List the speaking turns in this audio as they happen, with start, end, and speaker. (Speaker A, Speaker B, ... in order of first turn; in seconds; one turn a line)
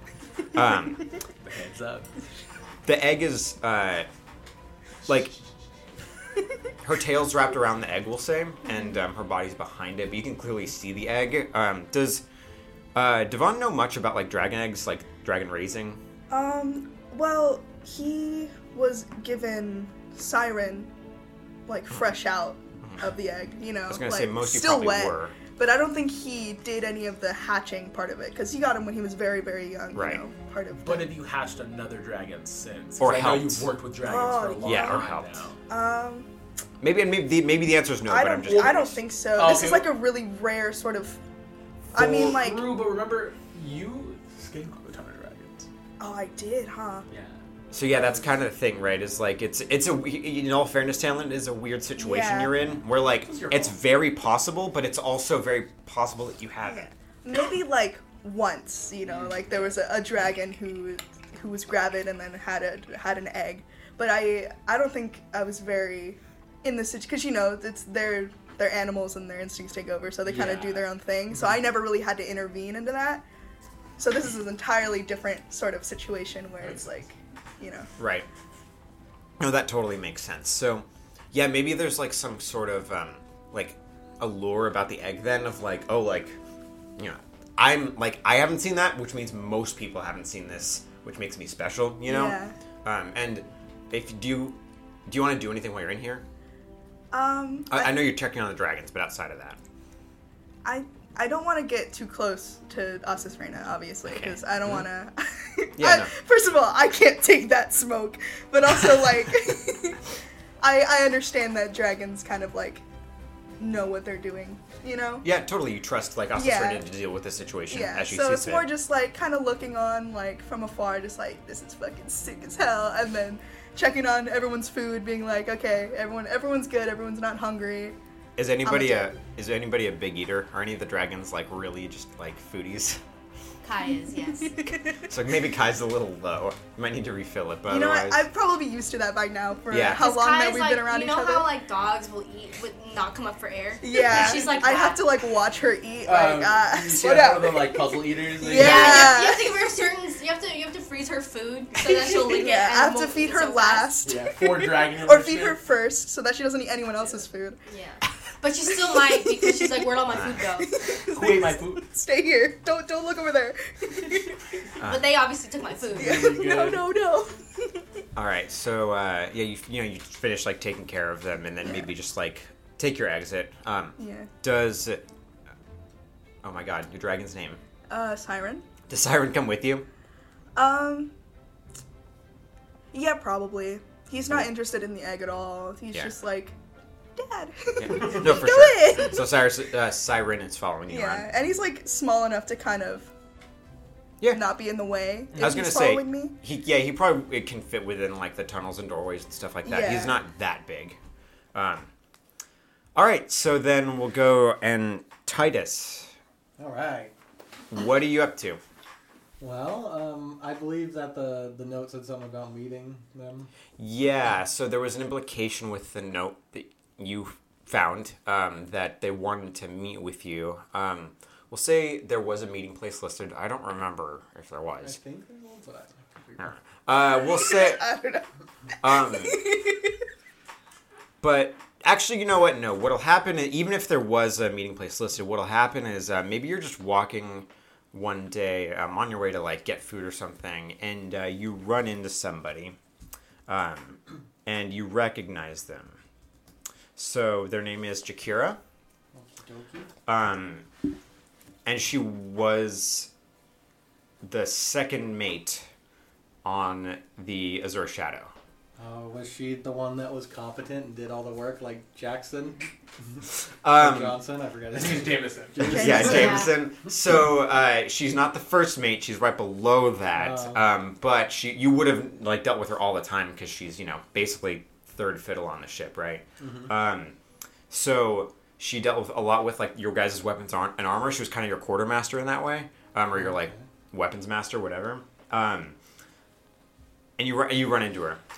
Speaker A: 0.5-1.0
Speaker B: 0.5-1.0
Speaker C: 1.4-2.1
Speaker A: 2.8-4.1
Speaker A: 5.0-5.3
Speaker A: 6.8-12.2
Speaker A: 12.9-16.0
Speaker B: 16.3-20.9
Speaker B: 21.6-31.1
Speaker A: 23.9-25.4
Speaker A: 29.9-30.2
Speaker C: 30.8-35.6
Speaker A: 33.0-33.7
Speaker B: 34.0-35.1
Speaker A: 34.6-35.5
Speaker B: 35.7-36.3
Speaker A: 36.8-39.0
Speaker B: 38.0-41.2
Speaker C: 38.4-39.9
Speaker B: 41.9-42.8
Speaker C: 41.9-45.7
Speaker B: 46.0-47.0
Speaker C: 47.1-47.4
Speaker A: 47.7-56.9
Speaker B: 52.0-52.6
Speaker C: 53.0-53.8
Speaker B: 56.6-73.2
Speaker C: 59.1-59.4
Speaker C: 70.2-71.5
Speaker B: 74.0-77.9
Speaker A: 78.0-78.2
Speaker A: 79.4-86.3
Speaker A: 87.0-96.2
Speaker B: 92.0-92.5
Speaker B: 97.1-98.0
Speaker A: 97.7-99.6
Speaker B: 100.6-110.1
Speaker A: 104.0-104.8
Speaker A: 105.8-106.1
Speaker B: 110.6-112.8
Speaker B: 113.6-115.2
Speaker A: 115.2-118.7
Speaker B: 116.3-116.8
Speaker B: 117.7-128.0
Speaker A: 128.4-133.0
Speaker B: 128.6-129.1
Speaker D: 133.6-134.7
Speaker B: 134.4-134.7
Speaker A: 135.1-138.3
Speaker B: 137.7-141.5
Speaker A: 139.7-140.0
Speaker D: 139.9-145.1
Speaker B: 143.8-149.6
Speaker A: 144.1-144.5
Speaker C: 146.1-149.2
Speaker D: 148.5-153.9
Speaker B: 151.8-157.6
Speaker C: 154.0-155.6
Speaker D: 157.7-160.8
Speaker B: 159.4-159.9
Speaker A: 160.1-160.4
Speaker B: 160.6-164.4
Speaker C: 161.1-161.8
Speaker A: 164.8-165.2
Speaker D: 164.8-166.3
Speaker C: 165.8-166.8
Speaker B: 165.9-167.8
Speaker A: 168.1-175.1
Speaker B: 174.0-174.3
Speaker A: 176.4-177.6
Speaker B: 177.9-178.7
Speaker A: 178.9-179.8
Speaker B: 180.6-181.1
Speaker B: 182.9-186.6
Speaker B: 187.2-189.3
Speaker A: 187.8-191.3
Speaker B: 190.9-193.1
Speaker B: 194.3-196.3
Speaker C: 195.3-195.6
Speaker A: 195.4-201.0
Speaker B: 199.6-200.2
Speaker A: 201.5-201.9
Speaker A: 202.9-206.1
Speaker E: 206.6-207.1
Speaker A: 207.7-208.6
Speaker E: 209.4-213.5
Speaker A: 213.8-225.0
Speaker E: 224.8-226.5
Speaker A: 226.4-227.8
Speaker B: 227.0-228.2
Speaker A: 228.8-229.4
Speaker B: 228.8-229.9
Speaker A: 231.2-242.8
Speaker A: 243.5-246.0
Speaker A: 246.9-248.6
Speaker E: 249.1-249.9
Speaker A: 250.1-250.7
Speaker A: 251.6-253.1
Speaker A: 254.2-255.7
Speaker A: 256.4-258.3
Speaker E: 258.8-266.5
Speaker A: 263.6-264.1
Speaker C: 264.7-265.8
Speaker A: 265.6-277.1
Speaker D: 266.1-266.4
Speaker E: 270.2-270.6
Speaker E: 276.4-276.7
Speaker A: 277.7-285.8
Speaker E: 283.2-283.6
Speaker A: 287.2-288.2